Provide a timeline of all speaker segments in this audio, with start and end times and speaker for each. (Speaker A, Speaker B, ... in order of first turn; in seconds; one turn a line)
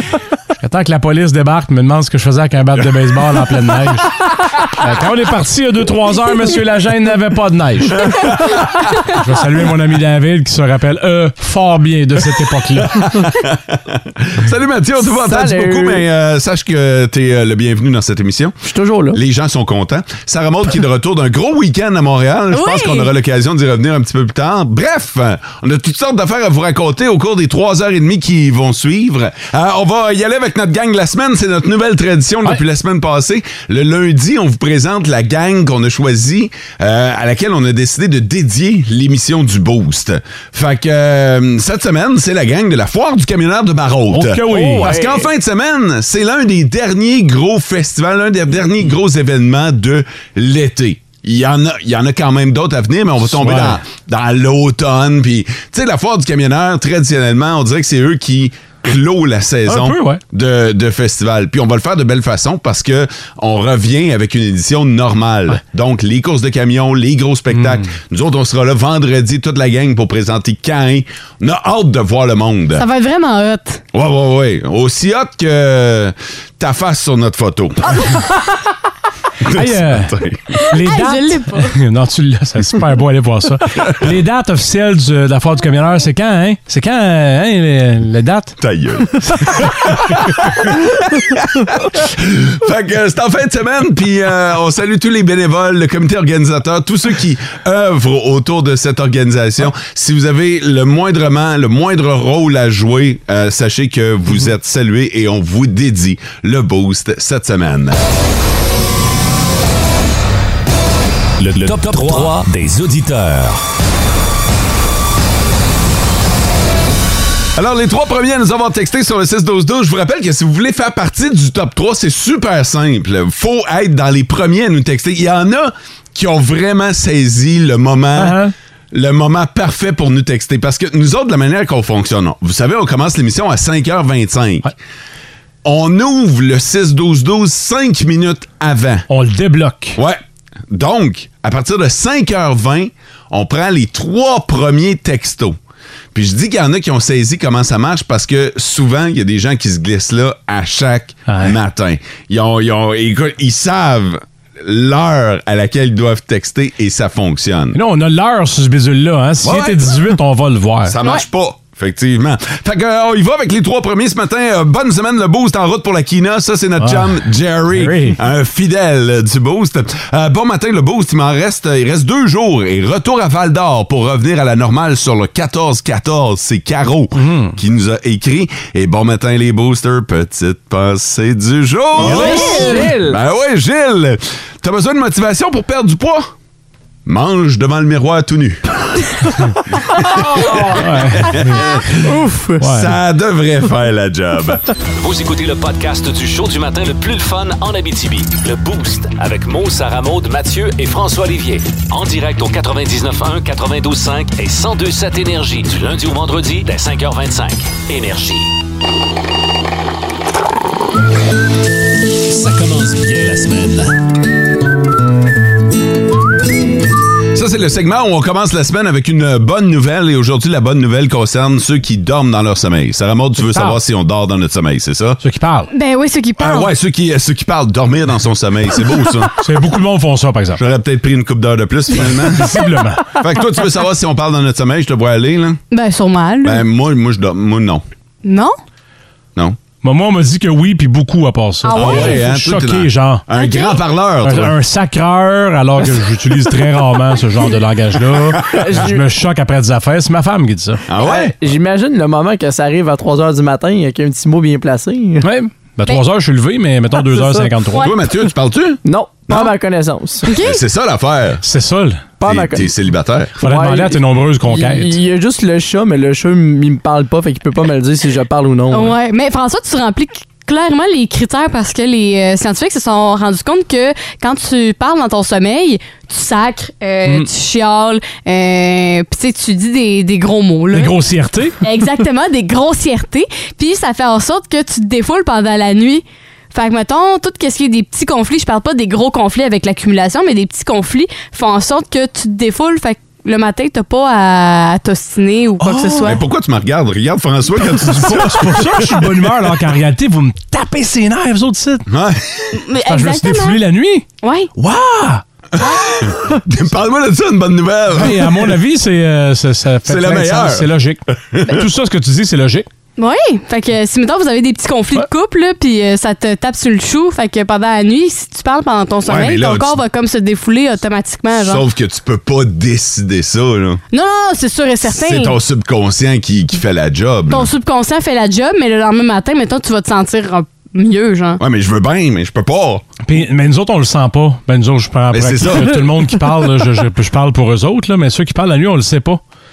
Speaker A: 0.6-8.2
Speaker B: 8.1-8.8
Speaker A: 8.9-13.2
Speaker B: 13.0-18.5
Speaker C: 15.0-16.0
Speaker C: 18.7-19.2
Speaker B: 19.1-72.8
Speaker D: 22.5-23.1
Speaker A: 44.1-44.9
Speaker C: 44.5-45.3
Speaker A: 53.2-53.8
Speaker A: 59.7-60.2
Speaker A: 67.5-67.9
Speaker D: 72.8-73.8
Speaker B: 73.9-78.1
Speaker B: 79.4-80.6
Speaker A: 79.5-80.2
Speaker D: 80.6-81.8
Speaker A: 80.7-88.6
Speaker B: 88.6-108.0
Speaker A: 89.2-89.7
Speaker E: 111.4-113.6
Speaker B: 117.6-128.4
Speaker A: 128.2-128.5
Speaker B: 128.9-134.7
Speaker B: 135.6-139.1
Speaker A: 139.1-140.0
Speaker B: 140.0-145.6
Speaker B: 146.1-157.8
Speaker A: 151.3-151.6
Speaker A: 157.7-160.9
Speaker B: 159.4-160.2
Speaker B: 160.9-186.3
Speaker A: 166.8-168.2
Speaker A: 177.2-177.6
Speaker C: 182.0-183.2
Speaker A: 182.0-182.7
Speaker D: 182.4-182.8
Speaker B: 187.1-189.1
Speaker B: 190.0-194.7
Speaker C: 190.1-190.8
Speaker A: 190.7-191.7
Speaker C: 192.1-192.6
Speaker A: 192.6-192.9
Speaker E: 194.9-208.5
Speaker E: 212.3-214.0
Speaker B: 217.3-225.2
Speaker A: 223.5-223.8
Speaker A: 225.2-225.7
Speaker D: 225.7-226.7
Speaker B: 226.4-229.4
Speaker A: 229.4-230.6
Speaker B: 230.6-235.6
Speaker A: 232.2-233.1
Speaker D: 235.7-236.6
Speaker B: 236.4-237.8
Speaker D: 238.2-238.6
Speaker A: 239.8-243.2
Speaker D: 241.6-242.2
Speaker B: 241.7-244.5
Speaker D: 243.3-243.8
Speaker A: 244.2-250.8
Speaker C: 248.5-249.0
Speaker B: 250.9-251.3
Speaker C: 251.0-255.3
Speaker A: 255.2-257.9
Speaker C: 257.0-257.5
Speaker B: 257.8-258.8
Speaker C: 258.9-260.3
Speaker D: 260.3-260.6
Speaker B: 260.4-261.4
Speaker A: 261.4-262.1
Speaker C: 262.2-262.7
Speaker B: 262.2-263.3
Speaker C: 263.4-268.9
Speaker A: 263.4-265.0
Speaker D: 268.7-280.9
Speaker A: 277.1-277.3
Speaker A: 280.7-281.6
Speaker D: 281.6-296.2
Speaker A: 295.6-296.1
Speaker B: 296.0-299.6
Speaker A: 297.6-301.9
Speaker B: 301.9-302.6
Speaker D: 302.6-303.6
Speaker A: 302.9-304.1
Speaker D: 304.2-304.5
Speaker A: 304.6-305.2
Speaker B: 305.6-308.6
Speaker D: 305.6-306.1
Speaker A: 307.9-312.7
Speaker B: 309.9-311.6
Speaker D: 313.0-321.6
Speaker B: 319.1-319.8
Speaker B: 321.4-323.8
Speaker D: 323.9-325.4
Speaker B: 324.8-327.5
Speaker D: 327.3-331.4
Speaker B: 331.4-332.9
Speaker A: 333.1-339.2
Speaker B: 335.1-336.0